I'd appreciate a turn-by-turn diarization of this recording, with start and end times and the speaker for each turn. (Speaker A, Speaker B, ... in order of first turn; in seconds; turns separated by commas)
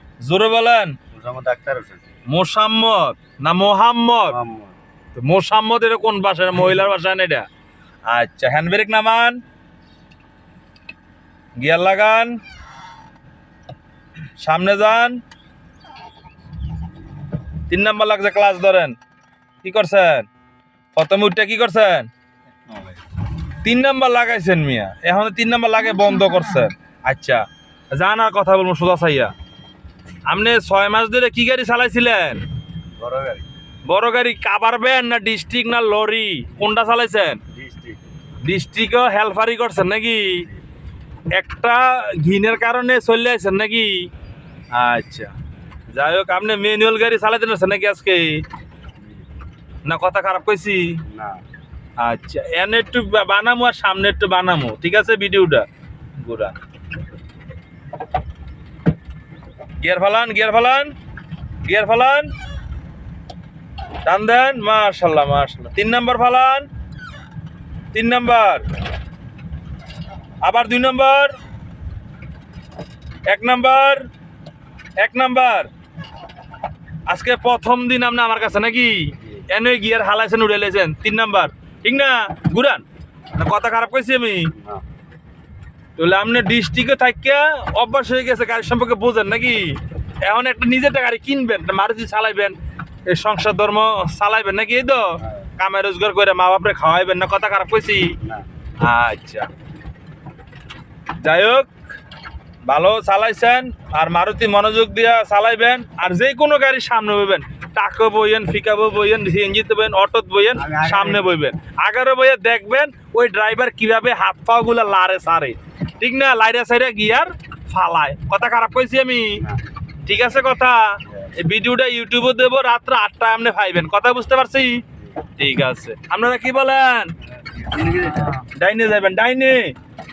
Speaker A: 0.2-0.9, Speaker B: 1.1-2.0, Speaker A: 2.3-4.4, Speaker B: 4.2-4.7, Speaker A: 5.2-7.5, Speaker A: 8.1-9.4, Speaker A: 11.6-12.4, Speaker A: 14.4-15.2, Speaker A: 17.7-18.9, Speaker A: 19.6-20.3, Speaker A: 20.9-22.1, Speaker A: 23.6-29.3, Speaker A: 30.3-32.4, Speaker B: 33.0-33.5, Speaker A: 33.9-37.4, Speaker B: 37.5-38.0, Speaker A: 38.4-40.5, Speaker A: 41.3-44.1, Speaker A: 44.7-45.3, Speaker A: 45.9-48.4, Speaker A: 49.8-51.0, Speaker B: 51.1-51.4, Speaker A: 52.0-55.6, Speaker A: 56.2-56.6, Speaker A: 59.8-60.9, Speaker A: 61.6-62.3, Speaker A: 64.0-66.7, Speaker A: 67.9-68.6, Speaker A: 70.4-71.3, Speaker A: 73.3-74.1, Speaker A: 75.0-75.7, Speaker A: 77.1-82.8, Speaker A: 83.3-84.5, Speaker B: 84.6-84.8, Speaker A: 86.0-98.2, Speaker B: 98.2-98.5, Speaker A: 98.8-99.5, Speaker A: 101.2-101.7, Speaker A: 102.6-119.4, Speaker B: 110.6-111.4, Speaker A: 120.0-124.8, Speaker A: 125.4-127.1, Speaker B: 127.5-128.3, Speaker A: 128.3-129.7